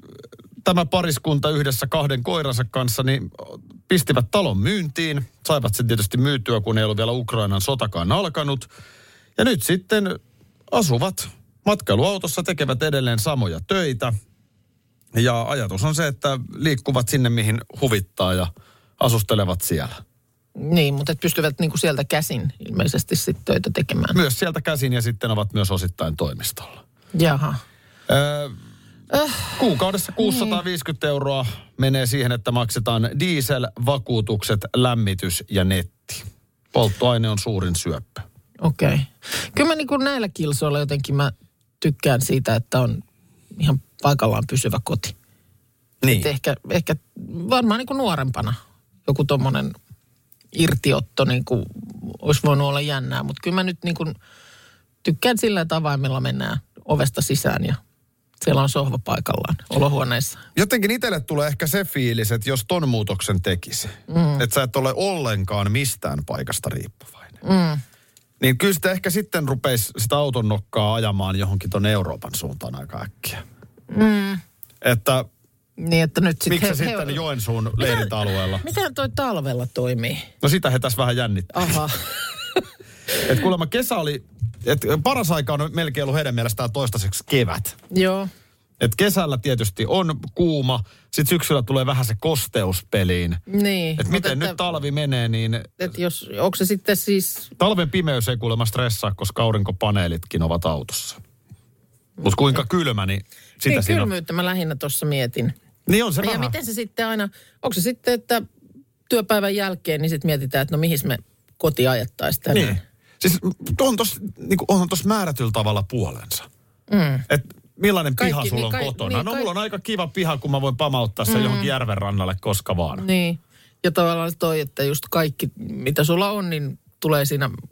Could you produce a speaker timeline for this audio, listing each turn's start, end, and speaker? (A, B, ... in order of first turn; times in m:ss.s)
0:00.6-0:08.7 A
0:09.4-0:10.2 A
0:10.7-0:14.2 A
0:15.1-0:20.0 A
0:20.6-0:24.2 B
0:24.1-0:26.8 A
0:27.2-0:27.6 B
0:28.1-0:28.6 A
0:29.1-0:29.6 B
0:29.6-0:38.2 A
0:30.2-0:30.6 B
0:38.6-0:43.0 B
0:43.6-0:45.2 B
0:46.0-0:46.3 A
0:46.1-0:49.7 B
0:50.5-0:54.2 B
0:55.0-0:57.8 B
0:58.4-1:00.4 B
1:00.6-1:07.4 A
1:04.1-1:04.4 B
1:07.4-1:07.8 B
1:08.4-1:13.4 A
1:13.9-1:14.4 B
1:14.8-1:15.3 A
1:15.8-1:17.2 B
1:16.5-1:18.6 A
1:17.8-1:20.3 B
1:20.4-1:21.8 A
1:21.5-1:22.6 B
1:23.2-1:27.8 A
1:27.9-1:28.3 B
1:28.8-1:33.4 A
1:33.5-1:34.6 B
1:34.0-1:35.9 A
1:35.8-1:37.5 B
1:37.6-1:41.2 A
1:42.2-1:44.1 A
1:42.2-1:42.6 B
1:43.7-1:45.5 B
1:45.9-1:46.6 A
1:46.2-1:48.4 B
1:49.1-1:52.8 B
1:52.5-1:56.5 A
1:56.9-1:57.3 B
1:57.3-2:03.0 A
1:58.2-1:59.5 B
2:01.3-2:01.7 B
2:03.0-2:07.6 B